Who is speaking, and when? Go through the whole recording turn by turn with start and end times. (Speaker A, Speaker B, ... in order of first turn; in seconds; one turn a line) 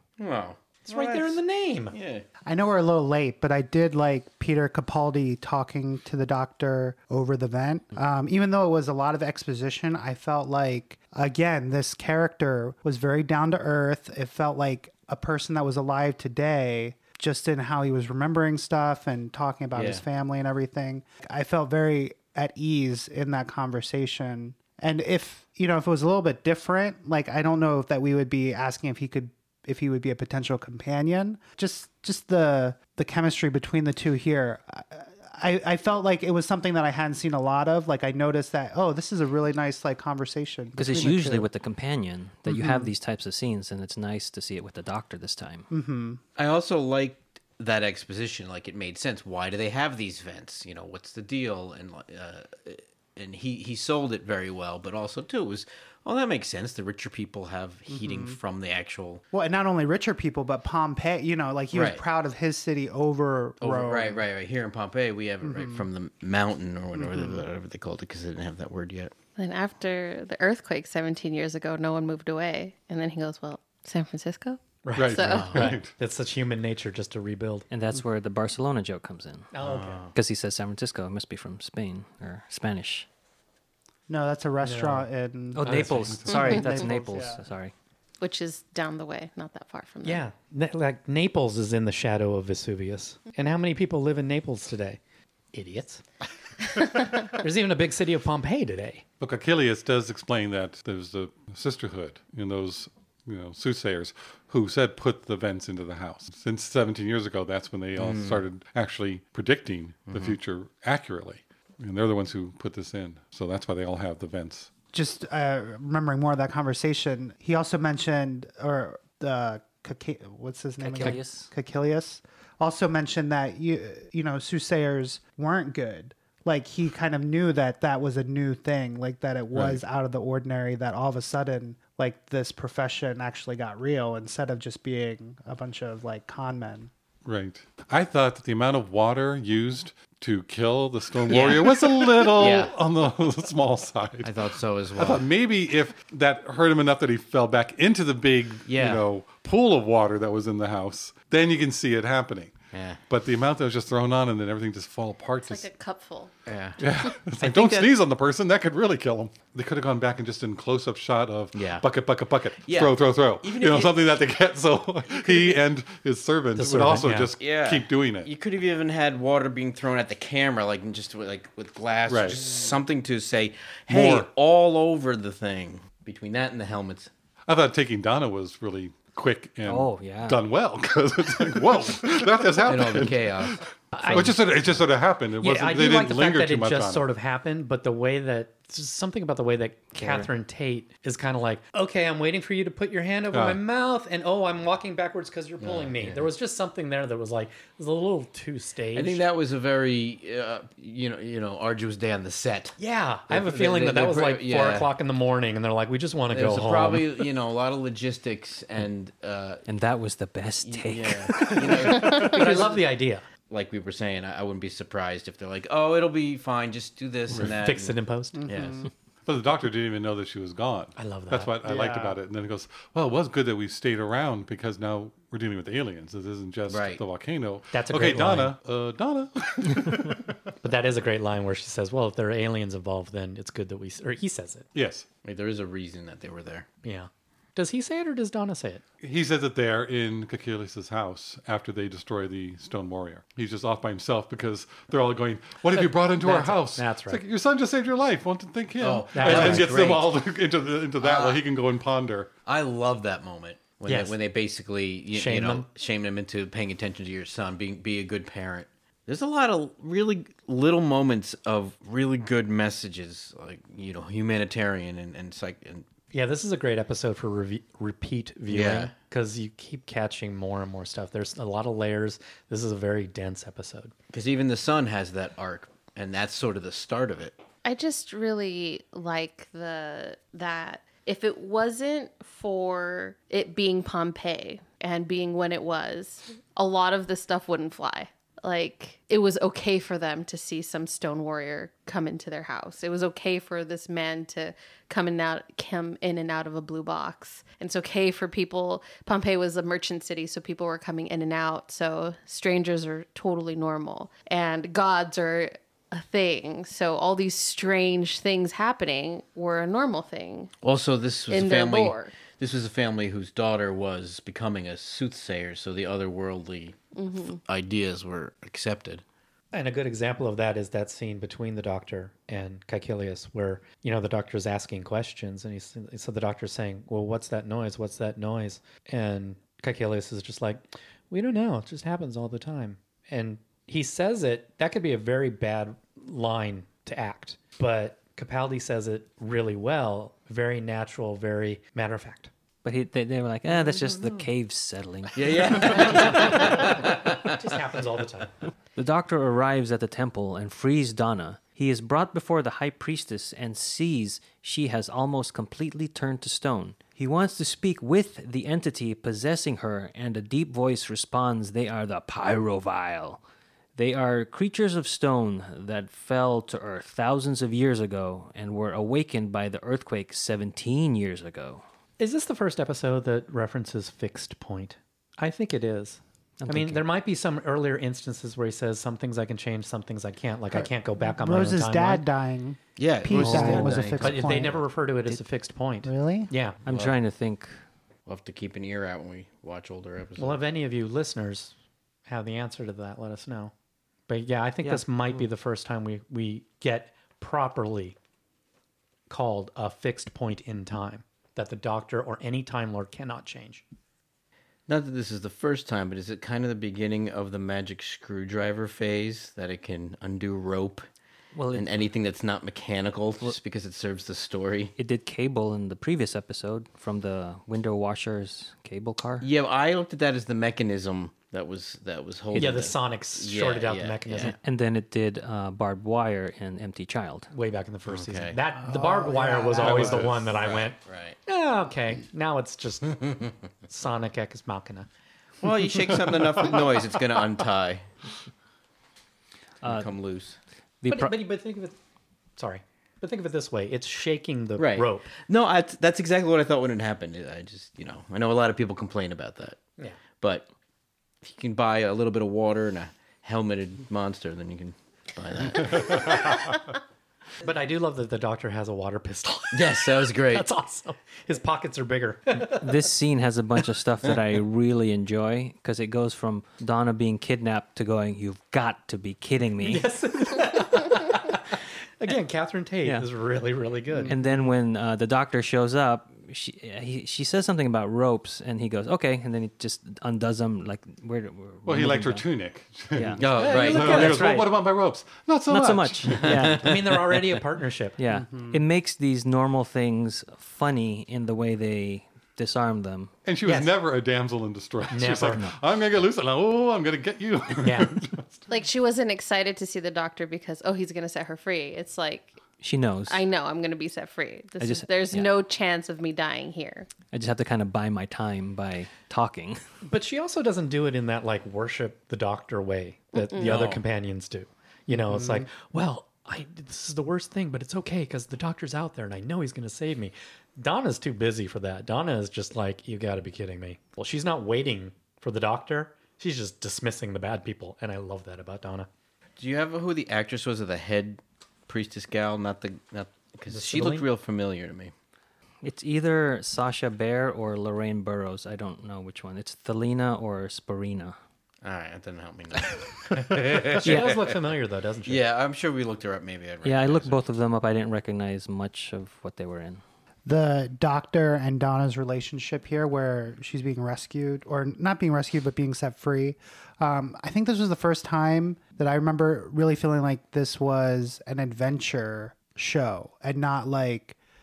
Speaker A: 0.2-1.4
Speaker B: 0.8-1.9
Speaker A: 1.9-2.2
Speaker C: 2.5-41.5
Speaker A: 19.7-20.0
Speaker D: 40.8-45.7
Speaker C: 42.5-42.9
Speaker C: 45.7-46.2
Speaker A: 46.4-59.2
Speaker C: 57.9-58.4
Speaker C: 59.3-64.2
Speaker A: 61.7-62.0
Speaker A: 63.6-69.1
Speaker C: 65.4-65.9
Speaker C: 66.9-67.4
Speaker E: 69.4-75.6
Speaker B: 74.8-77.7
Speaker F: 75.0-75.9
Speaker A: 75.3-75.7
Speaker D: 77.7-79.5
Speaker B: 79.5-80.1
Speaker A: 79.6-80.1
Speaker D: 80.1-83.1
Speaker C: 84.1-87.4
Speaker B: 84.6-85.1
Speaker D: 85.5-87.7
Speaker B: 85.7-86.2
Speaker F: 85.7-86.5
Speaker E: 88.2-90.2
Speaker B: 90.0-95.0
Speaker B: 95.5-96.0
Speaker B: 96.7-99.0
Speaker F: 99.2-114.7
Speaker A: 108.0-108.4
Speaker A: 110.1-110.4
Speaker C: 114.9-136.9
Speaker D: 120.8-121.5
Speaker F: 129.5-129.8
Speaker F: 137.2-152.5
Speaker A: 141.3-142.7
Speaker A: 144.2-145.2
Speaker A: 148.7-149.0
Speaker A: 152.7-153.0
Speaker F: 153.1-155.7
Speaker E: 155.4-156.3
Speaker A: 156.4-157.9
Speaker F: 156.8-168.3
Speaker A: 161.5-161.8
Speaker A: 162.6-164.2
Speaker A: 165.2-165.6
Speaker B: 166.6-167.3
Speaker A: 167.4-177.1
Speaker F: 172.1-172.4
Speaker F: 173.9-174.3
Speaker F: 177.5-187.0
Speaker D: 179.7-180.4
Speaker A: 182.6-183.6
Speaker B: 183.9-184.8
Speaker B: 185.4-199.2
Speaker D: 189.9-190.3
Speaker F: 193.3-193.6
Speaker A: 195.6-196.3
Speaker A: 198.9-202.8
Speaker B: 202.8-207.3
Speaker A: 203.3-204.9
Speaker A: 206.3-209.6
Speaker D: 209.7-212.0
Speaker A: 210.6-212.8
Speaker B: 211.6-213.2
Speaker A: 213.5-217.9
Speaker B: 217.4-218.4
Speaker C: 218.3-218.9
Speaker A: 218.5-218.9
Speaker F: 219.2-230.4
Speaker B: 221.0-221.6
Speaker C: 221.6-222.2
Speaker A: 226.7-227.0
Speaker B: 227.7-228.5
Speaker B: 230.6-234.7
Speaker F: 234.7-235.1
Speaker A: 235.2-236.7
Speaker B: 236.8-238.8
Speaker F: 239.0-252.3
Speaker B: 245.7-247.2
Speaker A: 248.8-250.2
Speaker B: 249.1-249.7
Speaker A: 251.0-251.4
Speaker A: 252.4-265.8
Speaker B: 253.8-254.2
Speaker B: 255.1-255.7
Speaker B: 266.1-273.9
Speaker A: 268.5-268.9
Speaker A: 274.1-277.4
Speaker E: 277.6-310.5
Speaker A: 310.6-319.0
Speaker E: 311.3-312.1
Speaker E: 316.9-317.4
Speaker B: 319.5-342.3
Speaker D: 342.6-345.9
Speaker A: 345.1-347.4
Speaker B: 345.6-348.3
Speaker D: 348.8-363.2
Speaker D: 363.8-371.6
Speaker B: 372.0-382.1
Speaker D: 376.4-376.9
Speaker C: 380.5-384.6
Speaker A: 382.8-384.2
Speaker D: 383.1-384.0
Speaker B: 383.3-386.6
Speaker C: 385.8-386.3
Speaker D: 386.6-387.5
Speaker A: 386.7-386.9
Speaker A: 388.1-390.4
Speaker B: 390.2-391.5
Speaker B: 392.1-393.5
Speaker B: 394.1-398.0
Speaker B: 399.1-403.6
Speaker A: 404.7-410.9
Speaker D: 411.3-411.7
Speaker A: 411.5-414.7
Speaker D: 414.8-419.3
Speaker A: 419.2-424.3
Speaker B: 422.3-424.3
Speaker D: 424.2-427.3
Speaker B: 427.3-434.9
Speaker A: 427.9-428.4
Speaker C: 428.6-430.1
Speaker F: 429.6-430.3
Speaker A: 430.3-431.2
Speaker A: 435.4-437.9
Speaker D: 439.6-439.9
Speaker A: 439.6-440.4
Speaker D: 440.8-441.2
Speaker B: 440.9-441.8
Speaker B: 442.4-445.1
Speaker A: 444.6-449.6
Speaker A: 450.2-450.4
Speaker A: 451.2-456.5
Speaker B: 457.4-462.8
Speaker A: 459.5-460.5
Speaker D: 462.4-469.9
Speaker B: 469.6-474.2
Speaker D: 474.1-482.2
Speaker F: 481.6-486.4
Speaker D: 482.9-484.5
Speaker A: 483.2-484.2
Speaker B: 483.4-484.2
Speaker D: 485.5-486.7
Speaker A: 486.2-487.2
Speaker B: 486.6-488.0
Speaker D: 488.0-493.1
Speaker C: 488.1-488.6
Speaker F: 493.2-498.4
Speaker B: 493.4-493.7
Speaker B: 494.9-495.4
Speaker D: 495.3-495.6
Speaker B: 497.6-498.0
Speaker E: 498.5-502.4
Speaker D: 502.6-503.2
Speaker E: 503.1-506.9
Speaker D: 504.6-505.3
Speaker D: 507.1-509.6
Speaker B: 509.8-528.9
Speaker E: 513.1-513.5
Speaker A: 513.4-513.8
Speaker C: 515.1-515.5
Speaker A: 529.4-534.9
Speaker B: 533.5-534.1
Speaker D: 535.6-541.1
Speaker A: 541.6-544.4
Speaker B: 543.7-545.2
Speaker A: 545.0-547.2
Speaker D: 546.6-549.8
Speaker C: 550.2-564.2